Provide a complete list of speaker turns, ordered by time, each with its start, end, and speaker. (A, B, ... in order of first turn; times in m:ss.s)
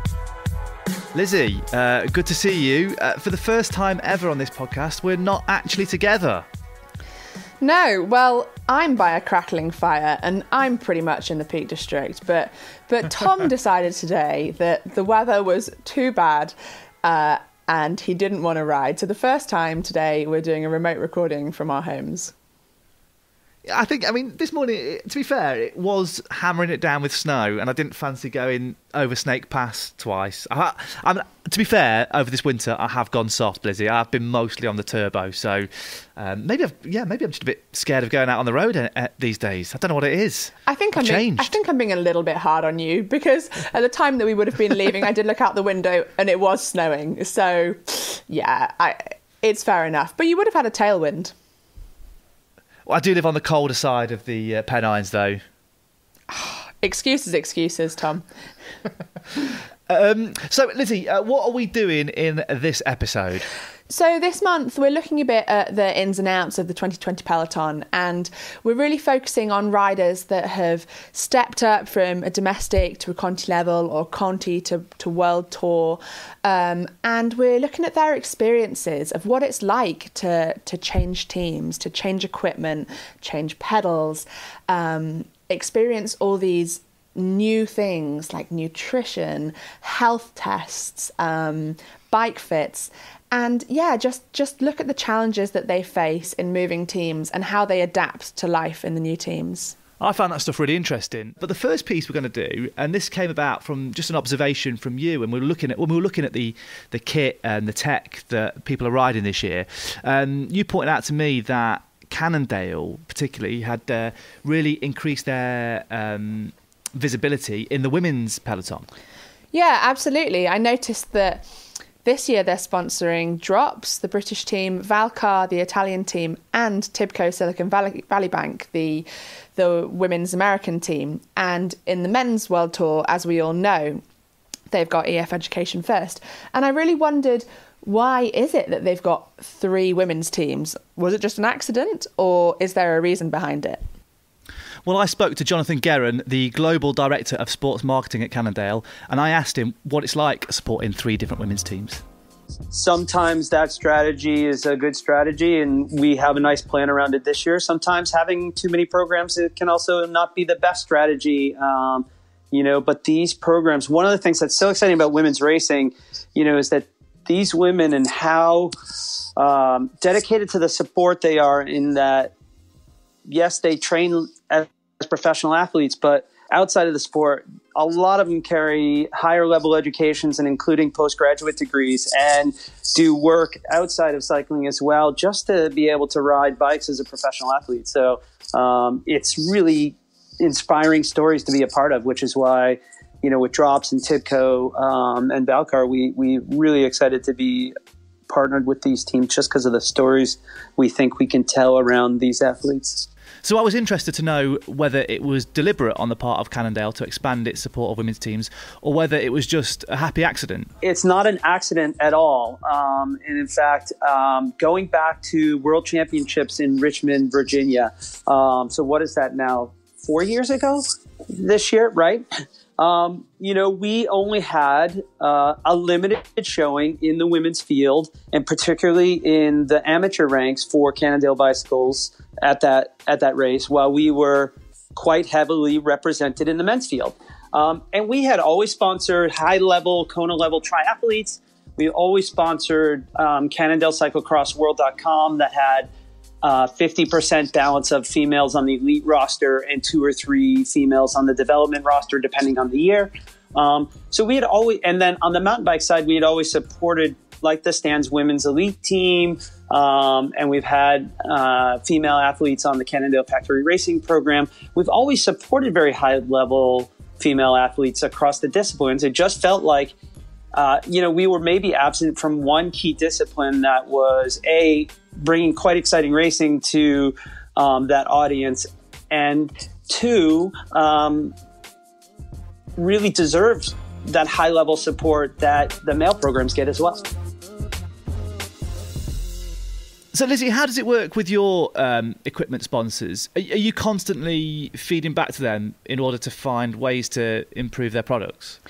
0:01.1-0:06.4 A
0:07.6-0:22.3 B
0:23.7-0:41.5 A
0:40.7-0:51.3 B
0:52.9-0:55.4 A
0:56.3-0:58.2 B
0:59.9-1:03.5 A
1:03.9-1:39.8 B
1:40.0-1:58.8 A
1:59.5-2:01.4 B
2:02.0-2:14.0 B
2:14.7-2:23.8 B
2:24.8-2:32.0 A
2:32.7-2:48.7 C
2:49.4-2:52.3 C
2:53.2-3:17.7 C
3:18.3-3:23.1 C
3:23.4-3:30.7 A
3:30.8-3:42.3 C
3:42.8-4:05.9 C
4:06.4-4:30.0 C
4:30.5-4:41.3 C
4:42.8-4:47.0 C
4:50.1-4:58.6 A